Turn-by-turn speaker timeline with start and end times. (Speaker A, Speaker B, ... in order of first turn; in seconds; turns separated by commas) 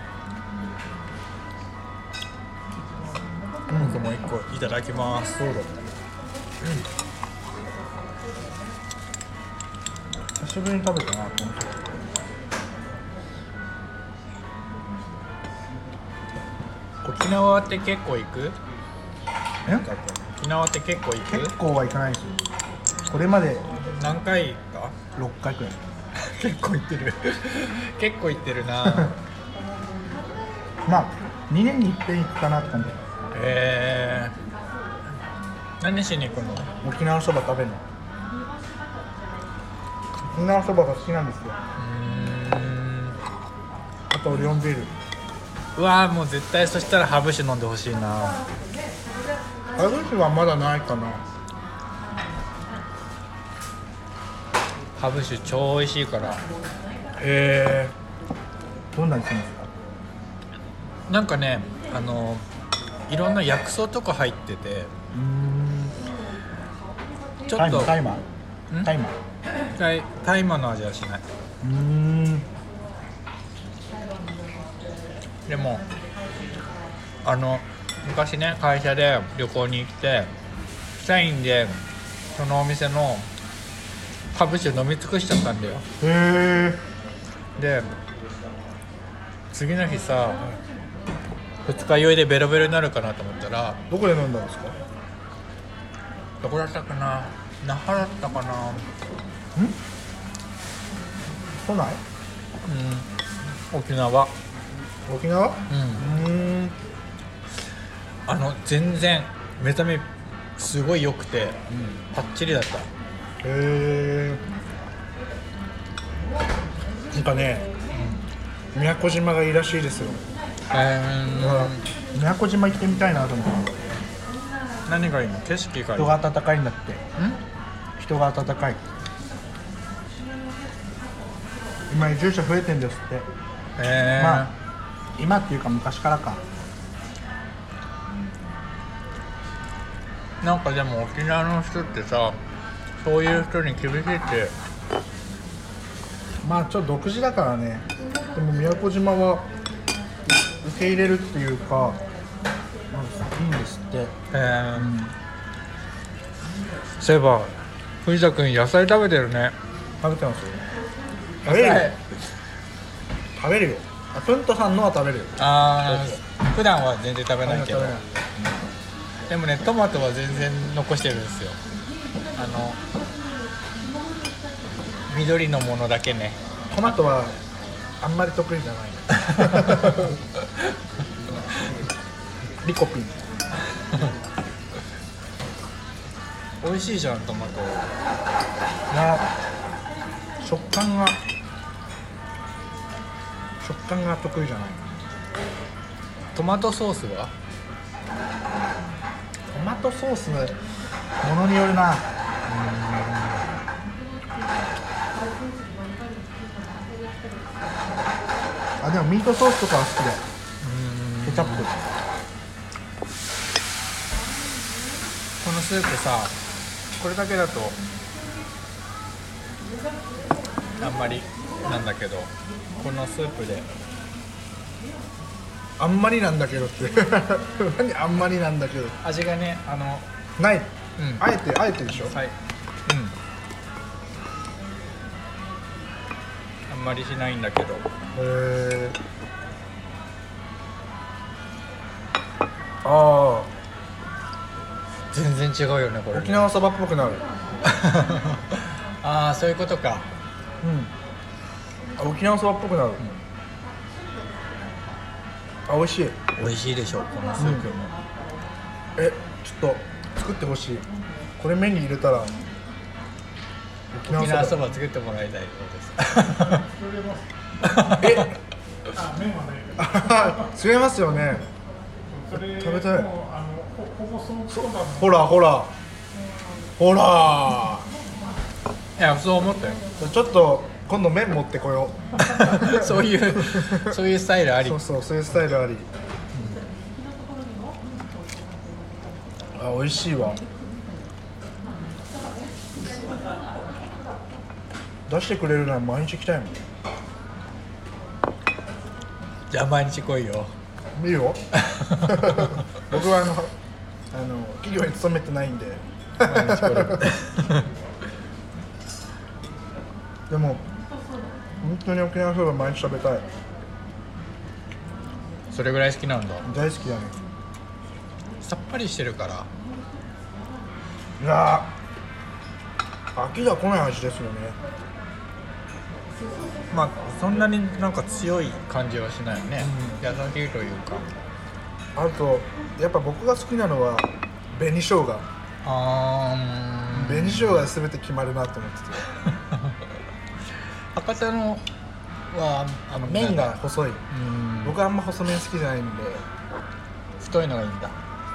Speaker A: 3.7-4.0, Speaker B: 3.7-5.7, Speaker A: 10.4-12.2, Speaker B: 17.0-18.6, Speaker B: 19.7-21.5, Speaker A: 21.3-22.4, Speaker A: 23.1-23.6, Speaker B: 23.9-24.9, Speaker A: 25.1-25.8, Speaker B: 26.1-29.1, Speaker A: 28.8-29.1, Speaker A: 30.9-33.0, Speaker B: 33.3-34.3, Speaker B: 35.8-36.7, Speaker A: 36.8-37.8, Speaker A: 40.3-41.6, Speaker B: 41.8-43.2, Speaker A: 44.1-44.9, Speaker B: 45.7-48.4, Speaker A: 49.7-51.2, Speaker B: 55.0-56.4, Speaker A: 57.2-57.9, Speaker A: 58.9-59.7, Speaker B: 61.1-62.4, Speaker B: 63.1-64.9, Speaker A: 65.1-66.0, Speaker B: 67.5-68.0, Speaker A: 67.5-68.2, Speaker A: 68.8-69.2, Speaker B: 69.7-71.2, Speaker A: 71.6-72.5, Speaker B: 75.5-75.8, Speaker B: 77.2-80.3, Speaker B: 80.9-81.8, Speaker B: 82.3-83.3, Speaker B: 84.3-85.8, Speaker A: 86.0-86.8, Speaker B: 87.6-87.9, Speaker B: 89.5-90.5, Speaker B: 91.6-93.8, Speaker A: 93.9-94.8, Speaker B: 96.4-98.9, Speaker A: 101.6-102.0, Speaker B: 102.6-103.1, Speaker B: 103.7-104.3, Speaker A: 105.0-106.8, Speaker B: 105.7-106.1, Speaker B: 108.2-112.9, Speaker A: 111.7-112.0, Speaker A: 113.4-114.4, Speaker A: 117.1-117.7, Speaker B: 117.9-118.2, Speaker A: 118.7-120.2, Speaker B: 120.7-121.8, Speaker A: 121.4-123.8, Speaker B: 124.8-126.2, Speaker A: 126.0-127.0, Speaker A: 128.0-128.8, Speaker A: 131.9-133.3, Speaker B: 133.8-134.5, Speaker A: 134.2-134.5, Speaker A: 135.2-136.4, Speaker B: 140.4-142.4, Speaker B: 143.0-144.5, Speaker A: 146.4-149.5, Speaker A: 150.2-152.0, Speaker A: 152.9-154.1, Speaker B: 154.3-154.9, Speaker A: 154.8-155.1, Speaker B: 157.0-159.5, Speaker A: 160.0-160.6, Speaker A: 161.4-161.9, Speaker B: 161.4-162.0, Speaker A: 163.3-166.2, Speaker B: 165.4-168.0, Speaker A: 167.4-168.5, Speaker B: 169.3-171.6, Speaker B: 172.3-172.8, Speaker B: 175.1-176.4, Speaker A: 176.7-177.4, Speaker A: 178.0-180.1, Speaker B: 179.4-179.8, Speaker A: 182.6-183.2, Speaker B: 186.6-187.9, Speaker A: 188.9-189.3, Speaker A: 190.4-191.2, Speaker A: 193.6-194.9, Speaker B: 196.3-197.3, Speaker A: 199.5-200.6, Speaker A: 201.2-202.1, Speaker B: 202.5-203.4, Speaker A: 208.8-210.2, Speaker B: 210.6-211.7, Speaker A: 211.2-211.9, Speaker B: 215.4-216.4, Speaker B: 217.0-217.8, Speaker B: 220.8-223.7, Speaker A: 225.8-229.0, Speaker B: 229.0-230.1, Speaker A: 230.4-232.2, Speaker B: 231.0-231.2, Speaker B: 231.9-232.3, Speaker B: 232.8-233.2, Speaker B: 236.7-237.9, Speaker A: 238.1-239.0, Speaker A: 242.8-243.5, Speaker B: 245.1-246.5, Speaker A: 246.1-247.2, Speaker B: 247.6-250.1, Speaker A: 250.6-250.9, Speaker A: 252.0-253.0, Speaker A: 255.7-256.2, Speaker B: 256.4-257.9, Speaker A: 257.4-257.7, Speaker A: 258.9-262.4, Speaker A: 263.9-264.6, Speaker B: 264.1-266.6, Speaker C: 266.5-267.3, Speaker B: 267.6-268.3, Speaker A: 267.9-268.4, Speaker C: 268.9-270.6, Speaker A: 269.8-271.4, Speaker C: 272.1-275.3, Speaker A: 272.3-273.1, Speaker A: 274.5-275.7, Speaker A: 276.8-277.9, Speaker B: 279.0-279.8, Speaker A: 280.0-284.0, Speaker B: 282.2-284.8, Speaker A: 284.6-285.9, Speaker B: 286.3-286.6, Speaker A: 289.5-290.4, Speaker A: 295.1-296.6, Speaker B: 299.5-300.5, Speaker A: 300.9-301.4, Speaker B: 301.5-302.6, Speaker A: 302.1-303.5, Speaker A: 304.1-307.1, Speaker B: 306.2-307.7, Speaker A: 310.3-310.6, Speaker A: 311.6-313.3, Speaker B: 315.5-316.5, Speaker A: 316.4-317.2, Speaker B: 318.4-319.5, Speaker A: 321.2-321.7, Speaker A: 323.1-324.6, Speaker B: 326.7-331.1, Speaker A: 329.6-330.0, Speaker A: 331.9-335.3, Speaker B: 335.6-337.7, Speaker A: 336.9-339.0, Speaker B: 339.5-339.8, Speaker B: 340.9-341.6, Speaker B: 342.3-343.6, Speaker A: 343.0-344.1, Speaker B: 344.1-344.8, Speaker A: 344.6-346.2, Speaker B: 347.2-347.9